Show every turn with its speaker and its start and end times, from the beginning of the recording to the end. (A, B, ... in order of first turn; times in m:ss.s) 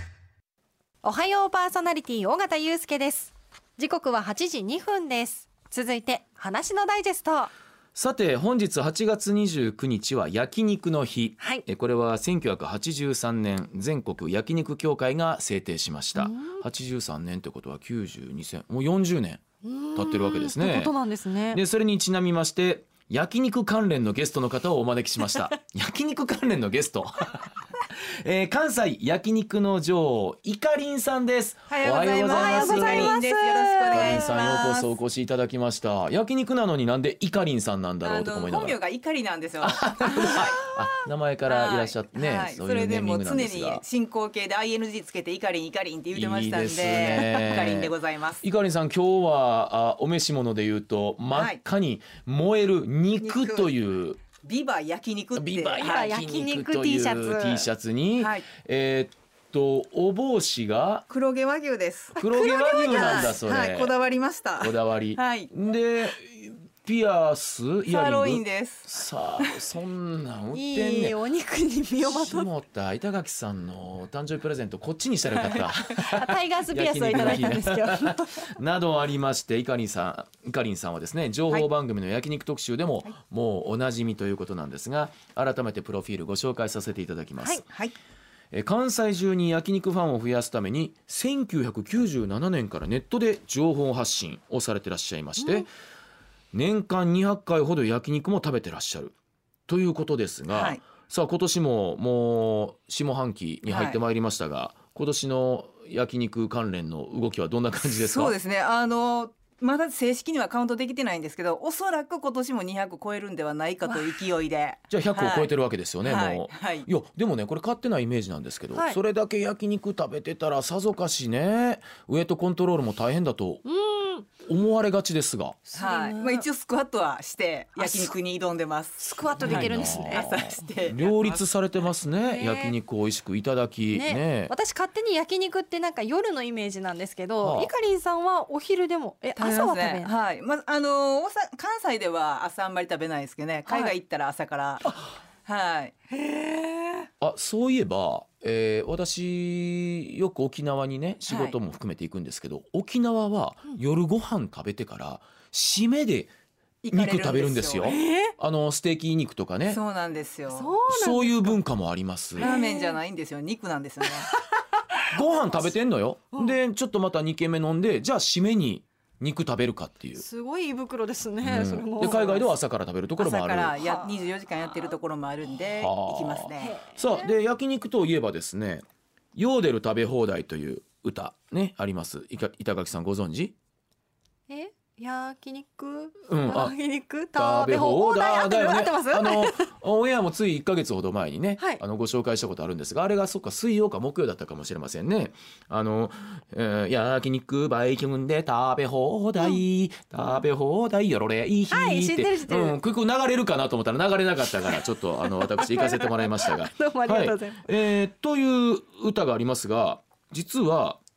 0:01.0-0:07.5 A
0:07.9-0:19.4 B
0:11.4-0:11.6 A
0:16.2-0:16.6 A
0:19.6-0:21.6 A
0:19.9-0:20.9 B
0:21.5-0:33.1 B
0:31.7-0:34.9 C
0:32.3-0:34.4 A
0:33.9-0:38.8 B
0:38.0-0:40.6 C
0:39.6-0:43.8 B
0:41.5-0:48.4 C
0:46.1-0:54.2 B
0:51.3-0:51.6 C
0:53.2-0:53.7 C
0:54.4-0:56.1 C
0:55.4-1:01.0 B
0:55.8-0:57.6 A
0:58.2-0:58.5 C
1:01.1-1:05.5 C
1:02.2-1:03.4 A
1:02.2-1:03.9 B
1:04.6-1:11.2 B
1:07.8-1:09.6 C
1:10.5-1:12.5 A
1:12.0-1:27.6 B
1:15.9-1:18.6 A
1:27.7-1:27.9 C
1:28.5-1:35.7 B
1:35.4-1:35.7 A
1:36.5-1:39.1 B
1:39.7-1:48.3 B
1:40.5-1:40.8 C
1:43.7-1:44.0 C
1:47.9-1:55.5 C
1:54.9-2:03.6 B
1:56.0-1:56.9 C
2:03.6-2:04.3 A
2:04.4-2:05.6 B
2:05.7-2:06.4 A
2:05.7-2:11.4 C
2:07.8-2:08.1 A
2:09.0-2:10.4 A
2:09.4-2:14.5 B
2:12.2-2:12.7 A
2:13.9-2:20.1 A
2:17.4-2:17.7 B
2:19.3-2:24.9 C
2:23.7-2:23.9 A
2:25.4-2:25.9 C
2:26.1-2:27.1 A
2:27.2-2:36.3 B
2:31.3-2:31.5 C
2:36.8-2:38.0 C
2:36.9-2:39.8 B
2:37.8-2:38.3 A
2:39.7-2:40.7 C
2:40.5-2:41.6 A
2:40.8-2:42.5 B
2:42.4-2:44.4 C
2:42.4-2:43.0 A
2:44.3-2:45.0 A
2:45.1-2:50.2 B
2:50.2-2:52.4 A
2:51.4-2:53.8 B
2:53.2-2:56.8 C
2:53.8-2:54.1 A
2:55.8-2:58.8 B
2:56.6-2:57.4 A
2:59.3-3:03.5 B
3:04.5-3:09.7 A
3:06.3-3:06.8 B
3:07.3-3:31.0 B
3:21.7-3:22.8 A
3:24.6-3:27.8 A